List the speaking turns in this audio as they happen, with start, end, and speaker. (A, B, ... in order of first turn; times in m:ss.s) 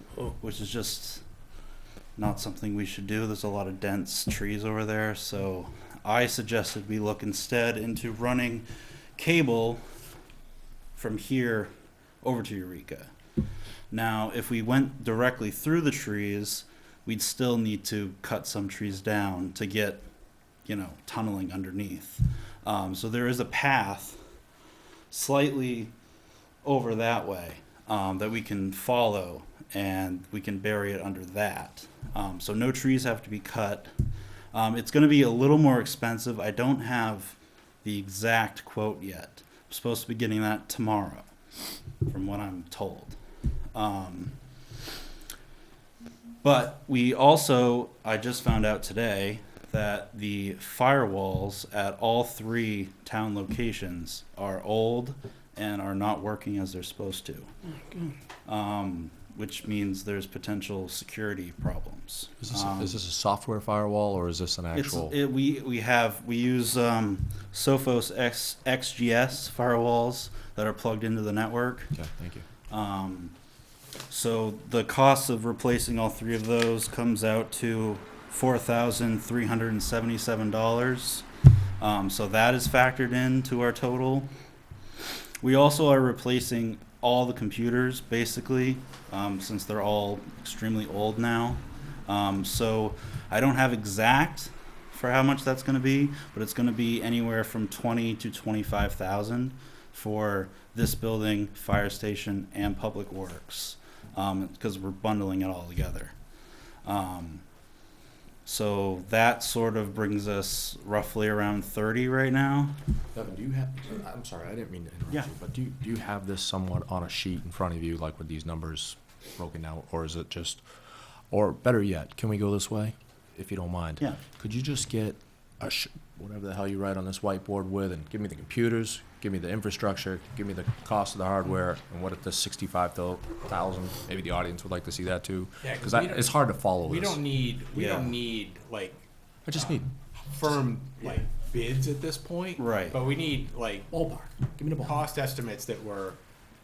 0:00.4-0:01.2 A
0:02.2-0:09.8 A
0:11.0-0:11.7 A
0:12.2-0:13.1 A
0:13.9-0:20.1 A
0:20.7-0:24.2 A
0:25.1-0:25.9 A
0:26.6-0:33.9 A
0:34.5-0:41.3 A
0:42.1-0:43.2 A
0:43.7-0:44.4 A
0:46.4-0:57.5 A
0:58.5-1:03.0 A
1:02.4-1:05.2 B
1:04.7-1:12.0 A
1:11.9-1:12.5 B
1:12.7-1:13.4 A
1:14.1-1:21.3 A
1:21.8-1:24.3 A
1:25.4-1:46.1 A
1:46.8-1:47.4 A
1:48.4-1:52.8 A
1:53.1-2:00.7 B
2:01.3-2:17.2 B
2:15.6-2:24.0 C
2:17.7-2:18.2 A
2:19.5-2:19.9 B
2:22.6-2:23.0 A
2:23.9-2:25.0 B
2:24.8-2:26.2 C